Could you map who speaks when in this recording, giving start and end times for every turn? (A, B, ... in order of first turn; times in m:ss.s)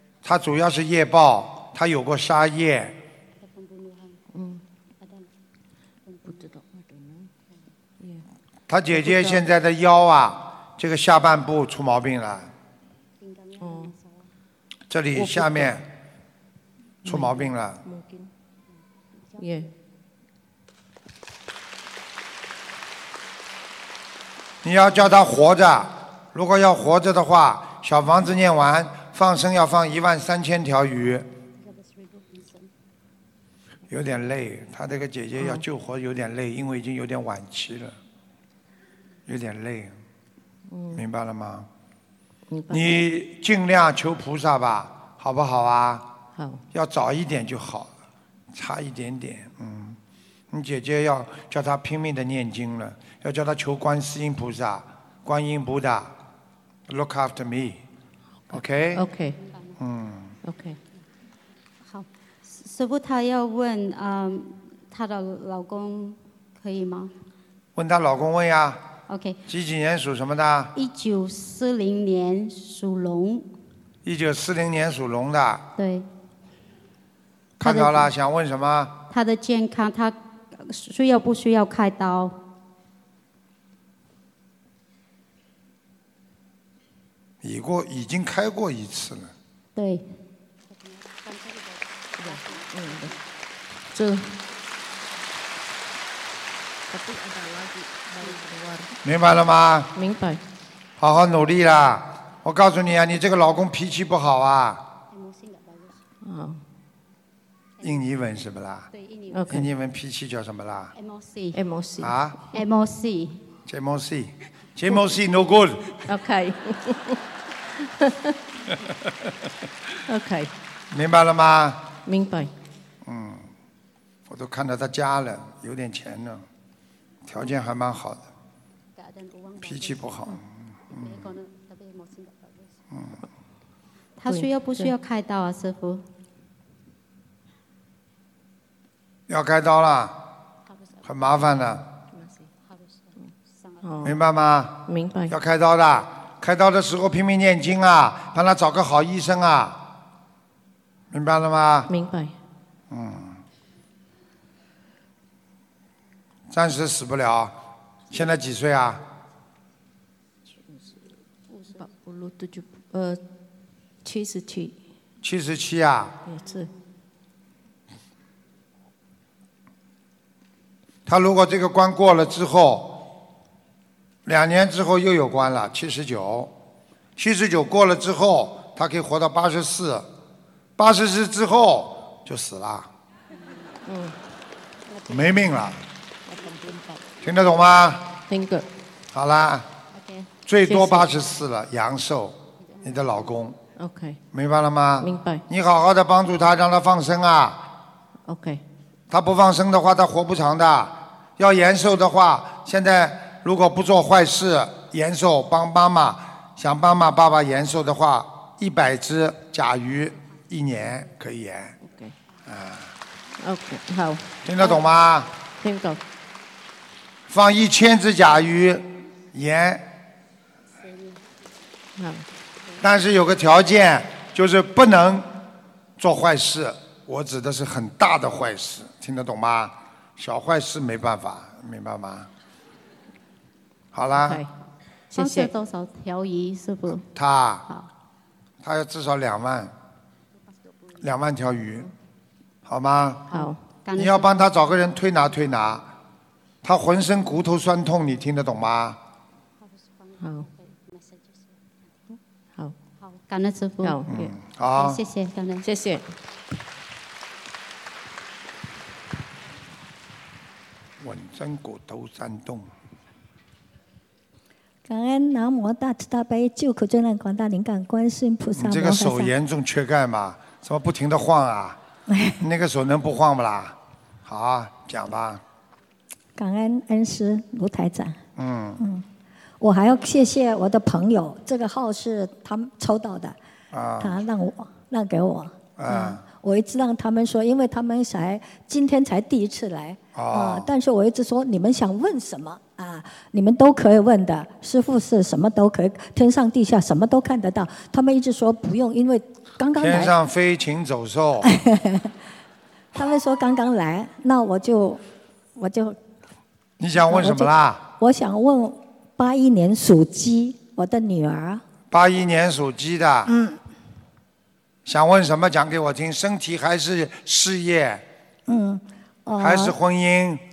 0:00.2-0:03.0 A
0:04.3-0:04.6 B
0:06.2-0:07.3 B
0:08.7-0:12.5 A
0:08.9-0:09.4 B
0:13.6-0:13.9 B
0:14.9-0:15.8 A
0:15.1-0:15.8 B
0:17.0-0:17.8 A
0:17.0-0:18.3 B
0:19.4-0:19.7 B
0:24.6-0:31.3 A
0:33.9-0:38.0 A
0:35.4-0:35.6 B
0:39.2-0:39.9 A
0:40.7-0:41.0 B
0:40.9-0:41.7 A
0:42.5-0:43.0 B
0:42.7-0:46.0 A
0:46.3-0:46.6 B
0:46.7-0:47.9 A
0:48.5-0:50.0 A
0:50.5-0:56.1 A
0:56.9-0:57.8 A
0:58.5-0:59.4 B
0:58.5-0:59.1 A
0:59.8-1:00.3 A
1:00.4-1:00.8 B
1:01.9-1:07.1 C
1:07.8-1:08.8 A
1:09.1-1:09.4 C
1:09.5-1:10.7 A
1:10.7-1:13.5 C
1:14.0-1:15.6 A
1:15.8-1:16.1 C
1:17.6-1:18.9 A
1:17.6-1:18.1 C
1:19.1-1:22.4 C
1:27.4-1:29.3 A
1:29.8-1:30.0 C
1:32.2-1:33.1 B
1:33.9-1:34.3 B
1:36.9-1:38.9 B
1:39.0-1:39.9 A
1:39.9-1:40.4 B
1:41.0-1:44.8 A
1:45.1-1:46.0 C
1:46.2-1:46.6 B
1:47.8-1:48.9 A
1:48.9-1:49.4 C
1:49.3-1:49.7 B
1:49.5-1:50.9 A
1:50.9-1:51.6 C
1:51.5-1:52.6 B
1:52.0-1:52.4 A
1:52.5-1:53.4 C
1:53.6-1:56.0 A
1:56.1-1:57.2 B
1:57.8-1:58.4 B
2:00.0-2:00.5 B
2:00.9-2:01.9 A
2:02.0-2:02.5 B
2:03.0-2:03.5 A
2:04.3-2:06.4 A
2:07.2-2:08.2 A
2:09.0-2:09.9 C
2:09.6-2:11.3 A
2:10.9-2:12.4 C
2:12.9-2:13.2 A
2:14.2-2:16.0 C
2:14.3-2:14.9 B
2:19.3-2:20.2 A
2:21.0-2:21.8 A
2:22.1-2:22.5 B
2:23.8-2:24.2 B
2:24.0-2:29.8 A
2:24.9-2:25.3 B
2:31.1-2:31.9 A
2:31.9-2:32.3 B
2:32.9-2:33.4 A
2:36.5-2:37.5 A
2:38.1-2:39.0 A
2:41.7-2:43.2 B
2:44.0-2:44.8 B
2:45.2-2:46.2 A
2:46.2-2:46.7 B
2:51.0-2:53.0 A
2:54.2-2:56.5 A
2:57.2-3:00.1 A
3:00.8-3:02.9 A
3:03.8-3:04.1 B
3:05.1-3:05.8 A
3:07.2-3:08.1 A
3:08.3-3:08.7 B
3:09.1-3:09.7 A
3:09.9-3:10.3 C
3:10.4-3:13.6 A
3:10.7-3:11.1 B
3:13.8-3:14.2 B
3:14.3-3:17.6 A
3:15.0-3:15.4 B
3:18.3-3:18.6 B
3:19.1-3:31.8 A
3:31.8-3:32.1 B
3:32.4-3:32.9 A
3:33.4-3:34.7 B
3:34.4-3:35.3 A
3:35.6-3:36.0 B
3:37.3-3:39.9 A
3:42.0-3:42.2 B
3:42.8-3:45.3 A
3:46.0-3:52.3 A
3:53.9-3:54.4 A
3:54.2-3:54.5 B
3:55.1-3:55.5 B
3:55.2-3:57.0 C
3:57.1-3:57.6 A
3:58.6-3:59.7 A
4:01.0-4:01.9 A
4:02.6-4:03.3 A
4:03.3-4:03.6 B
4:03.3-4:04.5 C
4:04.0-4:05.9 A
4:06.6-4:09.0 A
4:10.2-4:10.5 B
4:12.1-4:12.7 B
4:13.1-4:14.0 C
4:13.8-4:14.3 B
4:14.0-4:15.0 A
4:14.7-4:15.6 C
4:15.6-4:16.0 B
4:21.0-4:22.7 A
4:24.8-4:29.3 D
4:28.6-4:31.8 A
4:32.1-4:32.4 D
4:32.4-4:35.4 A
4:36.4-4:38.2 D
4:38.4-4:38.8 A
4:38.8-4:39.0 D
4:39.6-4:43.4 D
4:43.7-4:44.2 A
4:44.0-5:00.1 D
4:45.8-4:46.2 A
4:50.1-4:50.7 A
4:59.7-5:01.5 A
5:01.4-5:02.1 D
5:02.9-5:05.0 D
5:05.6-5:06.0 D
5:06.8-5:07.8 A
5:07.1-5:11.6 D
5:11.9-5:13.3 A
5:13.2-5:13.6 D
5:14.8-5:18.0 A
5:18.5-5:19.8 D
5:19.4-5:20.4 A